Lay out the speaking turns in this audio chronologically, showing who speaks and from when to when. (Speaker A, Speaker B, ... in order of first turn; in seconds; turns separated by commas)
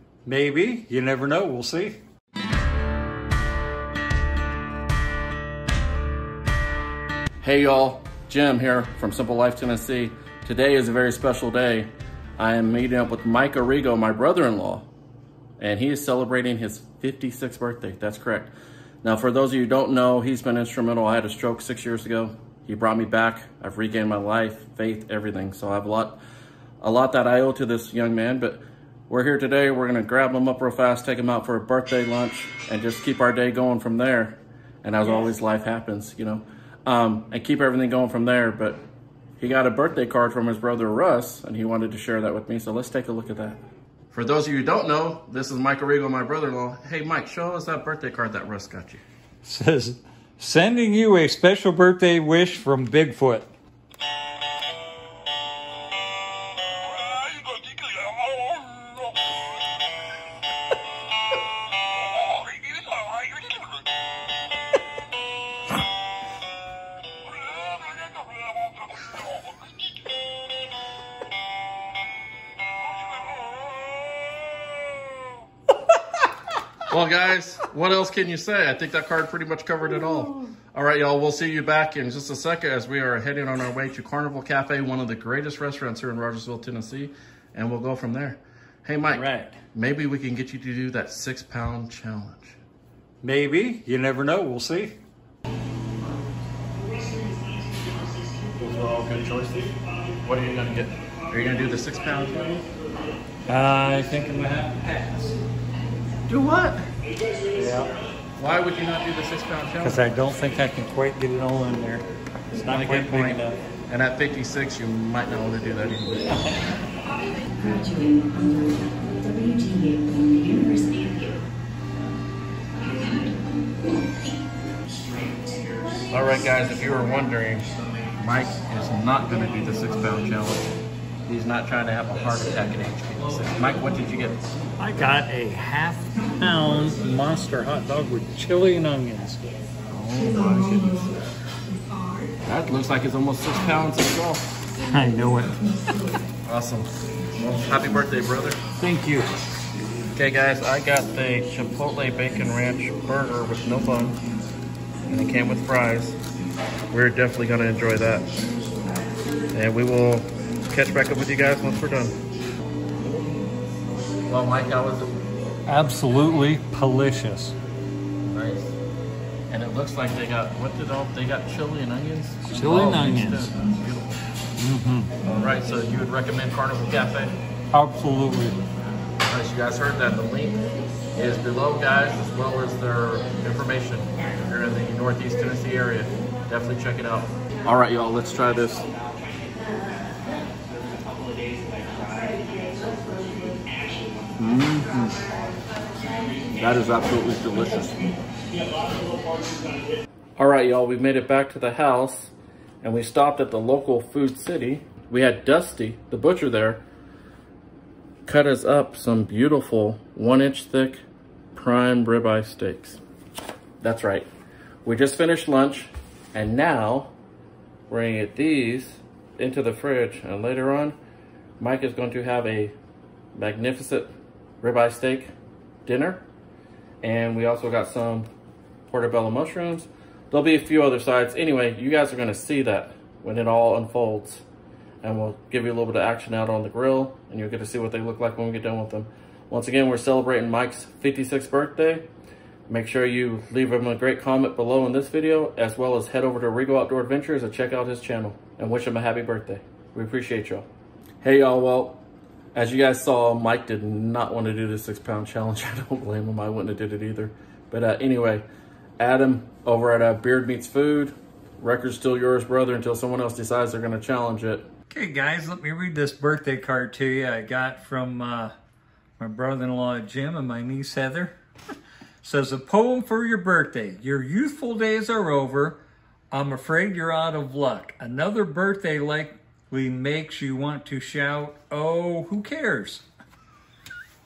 Speaker A: 0.3-2.0, Speaker B: 7.4-14.9, Speaker B: 15.6-26.2, Speaker B: 26.8-38.8, Speaker B: 39.4-43.6, Speaker B: 44.1-49.0, Speaker A: 49.4-53.5, Speaker A: 57.2-58.6, Speaker B: 76.9-92.6, Speaker A: 89.1-89.6, Speaker A: 93.2-95.0, Speaker B: 98.5-102.6, Speaker A: 103.5-105.4, Speaker B: 106.3-106.8, Speaker A: 107.5-107.9, Speaker B: 108.4-110.1, Speaker A: 109.8-113.6, Speaker B: 112.6-116.6, Speaker C: 117.7-121.1, Speaker B: 126.1-130.7, Speaker B: 131.3-134.5, Speaker A: 134.8-139.4, Speaker B: 139.9-141.2, Speaker B: 142.4-144.5, Speaker A: 144.9-145.7, Speaker B: 146.5-148.6, Speaker A: 148.8-149.3, Speaker B: 150.2-154.2, Speaker B: 155.1-156.2, Speaker B: 156.9-158.3, Speaker B: 159.5-162.2, Speaker B: 164.3-165.2, Speaker A: 165.7-167.6, Speaker B: 168.2-168.8, Speaker B: 169.5-174.2, Speaker A: 172.5-173.5, Speaker A: 174.6-175.2, Speaker B: 175.2-177.3, Speaker A: 177.7-178.6, Speaker B: 179.2-180.6, Speaker B: 181.2-188.9, Speaker B: 194.4-195.2, Speaker B: 196.6-198.1, Speaker B: 200.4-206.8, Speaker B: 208.3-211.0, Speaker B: 211.5-213.0, Speaker B: 213.8-214.3, Speaker B: 214.8-217.1, Speaker B: 217.9-221.0, Speaker B: 221.6-222.8, Speaker B: 223.3-224.1, Speaker B: 224.6-225.3, Speaker B: 225.9-226.2, Speaker B: 227.0-228.3, Speaker B: 228.9-234.4, Speaker B: 235.0-242.1, Speaker B: 242.7-250.7, Speaker B: 251.2-252.0, Speaker B: 252.6-258.4, Speaker B: 259.0-264.7, Speaker A: 264.9-268.5, Speaker A: 269.2-271.3, Speaker A: 272.2-275.8, Speaker A: 276.3-283.1